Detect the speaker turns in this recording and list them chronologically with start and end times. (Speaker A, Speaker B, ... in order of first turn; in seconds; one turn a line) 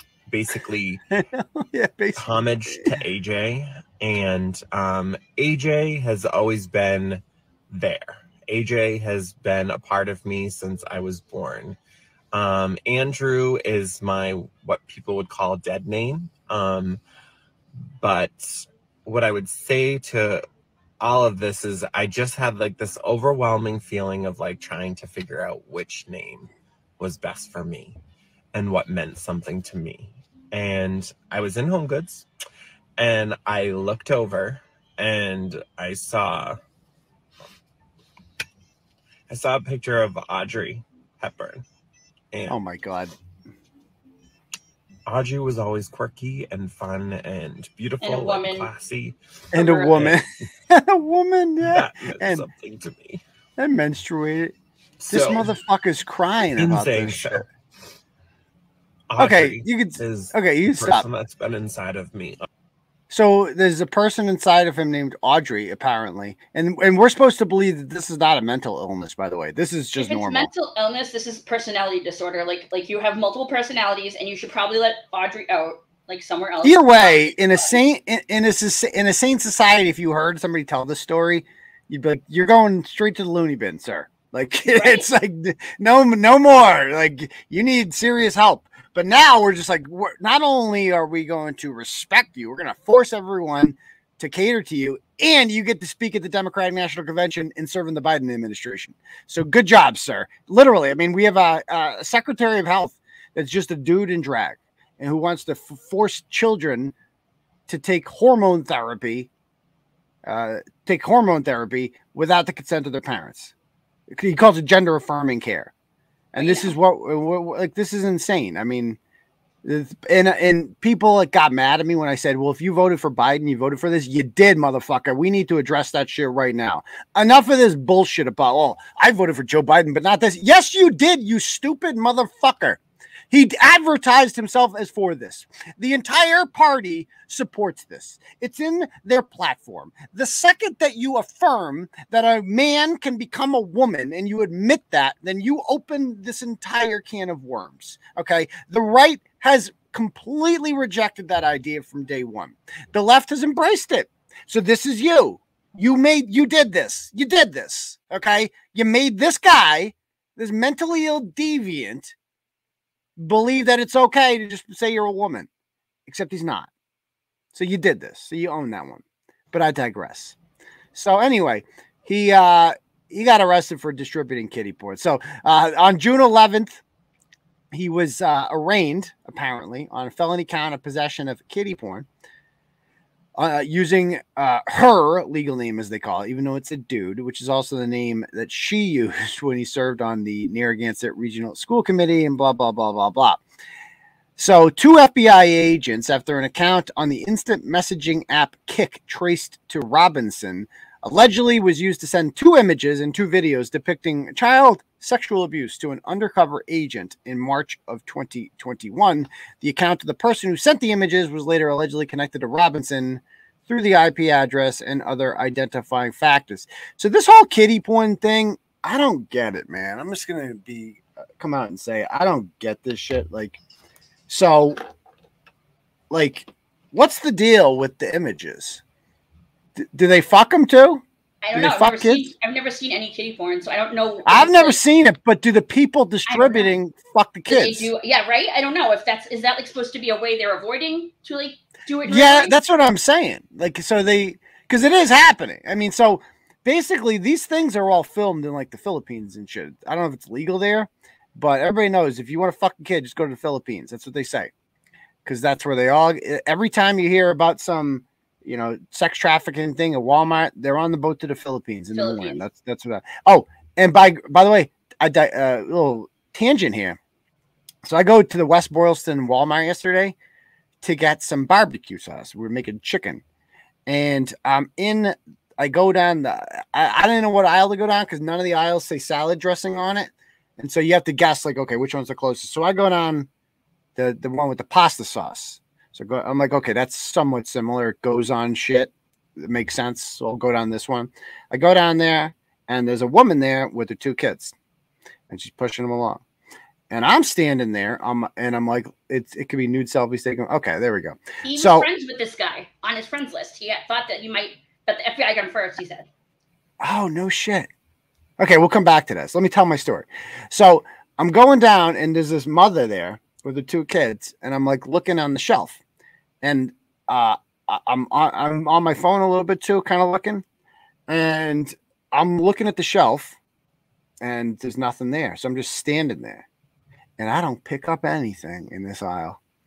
Speaker A: 0.3-1.0
Speaker B: 1.1-2.9
Speaker A: 2.2-11.8
Speaker A: 12.3-17.0
Speaker A: 18.0-20.4
Speaker A: 21.0-28.0
Speaker A: 28.5-32.3
Speaker A: 33.0-36.6
Speaker A: 39.3-41.6
Speaker A: 42.3-42.6
Speaker B: 42.5-43.1
Speaker A: 45.1-50.2
Speaker C: 48.0-48.7
Speaker B: 49.5-52.5
Speaker C: 49.6-50.0
Speaker A: 51.6-53.2
Speaker B: 53.6-54.5
Speaker A: 55.0-55.5
Speaker B: 55.1-57.5
Speaker A: 56.6-57.5
Speaker A: 59.1-62.5
Speaker B: 59.2-61.1
Speaker B: 63.1-70.5
Speaker C: 70.0-77.8
Speaker B: 76.6-106.9
Speaker C: 84.7-85.1
Speaker B: 107.7-109.3
Speaker B: 110.3-113.5
Speaker B: 114.1-115.7
Speaker B: 116.3-119.0
Speaker C: 116.4-116.7
Speaker B: 119.6-132.8
Speaker B: 133.3-162.1
Speaker B: 163.2-165.5
Speaker B: 166.1-166.7
Speaker B: 167.5-170.4
Speaker B: 170.9-176.8
Speaker B: 177.7-182.1
Speaker B: 183.4-193.4
Speaker B: 194.4-223.6
Speaker B: 224.3-224.8
Speaker B: 226.1-228.8
Speaker B: 229.8-231.0
Speaker C: 231.4-234.8
Speaker B: 231.5-232.3
Speaker B: 234.3-237.9
Speaker C: 236.3-236.7
Speaker C: 237.5-242.6
Speaker B: 242.1-254.5
Speaker B: 255.2-267.0
Speaker C: 261.9-262.4
Speaker B: 267.9-270.1
Speaker B: 270.8-273.2
Speaker B: 273.9-283.3
Speaker B: 284.0-294.5
Speaker B: 295.3-296.2
Speaker B: 296.9-301.9
Speaker C: 301.4-306.1
Speaker B: 306.8-307.7
Speaker B: 308.4-315.8
Speaker B: 316.4-320.4
Speaker B: 321.1-323.4
Speaker B: 324.2-326.4
Speaker B: 327.2-329.4